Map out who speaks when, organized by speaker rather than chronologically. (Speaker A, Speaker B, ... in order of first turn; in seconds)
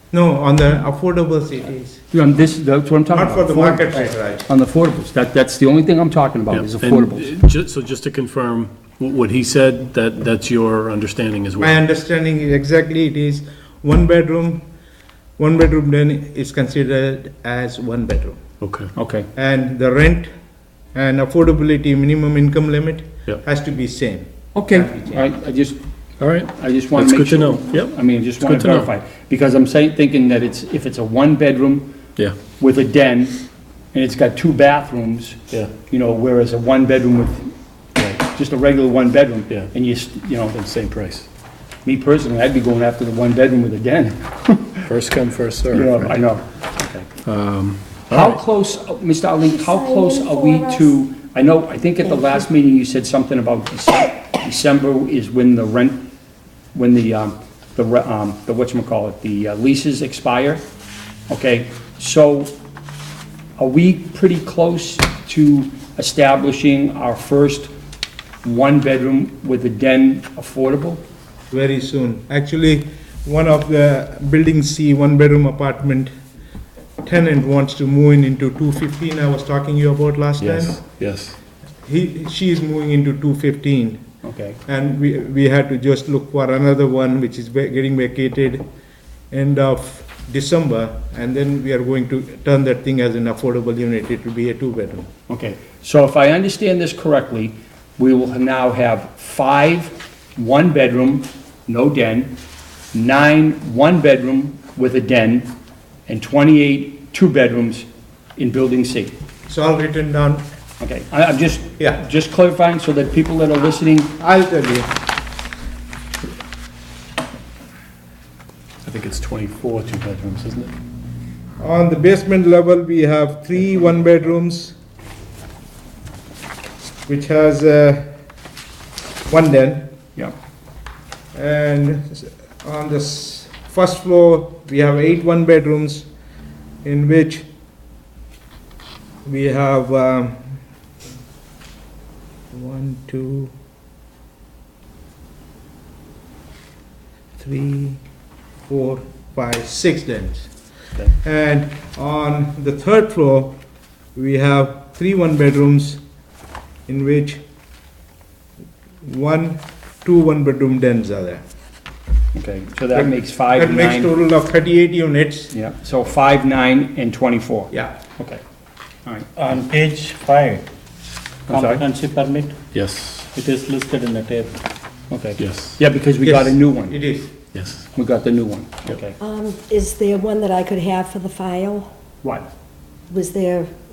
Speaker A: 0.1-2.0, 3.1-4.5, 11.6-14.6, 15.4-18.4, 19.3-20.3, 20.9-25.2, 71.5-76.1, 77.0-80.8, 81.8-84.1, 84.7-88.6, 89.3-95.1, 109.5-110.5, 114.2-114.9, 121.6-124.8, 127.1-128.1, 129.3-129.9, 131.3-136.1, 136.8-137.5, 139.2-140.6, 142.5-143.5, 147.4-148.0, 148.7-153.6, 154.1-156.0, 156.9-157.4, 159.0-161.4, 162.9-165.5, 176.3-177.3
Speaker B: 2.1-7.3, 18.9-19.3, 24.5-25.8, 26.4-31.9, 32.5-33.4, 33.9-37.5, 38.1-40.7, 41.8-44.9, 45.7-47.1, 48.1-56.1, 56.7-60.6, 61.3-62.5, 63.6-67.7, 68.4-71.0, 84.2-84.6, 95.3-102.3, 102.9-105.5, 106.1-109.1, 110.8-114.1, 162.3-164.1, 165.5-168.4, 171.5-171.8, 175.1-177.0, 177.9-179.2, 182.2-182.5
Speaker C: 6.5-11.8, 18.6-18.9, 26.2-28.9, 40.6-41.2, 44.8-46.2, 47.2-48.4, 80.4-81.4, 118.8-120.7, 172.7-173.3, 175.4-175.8, 177.5-177.9
Speaker D: 49.4-51.0, 179.2-181.9, 183.1-183.7
Speaker E: 169.3-170.6, 171.5-172.6, 173.3-174.6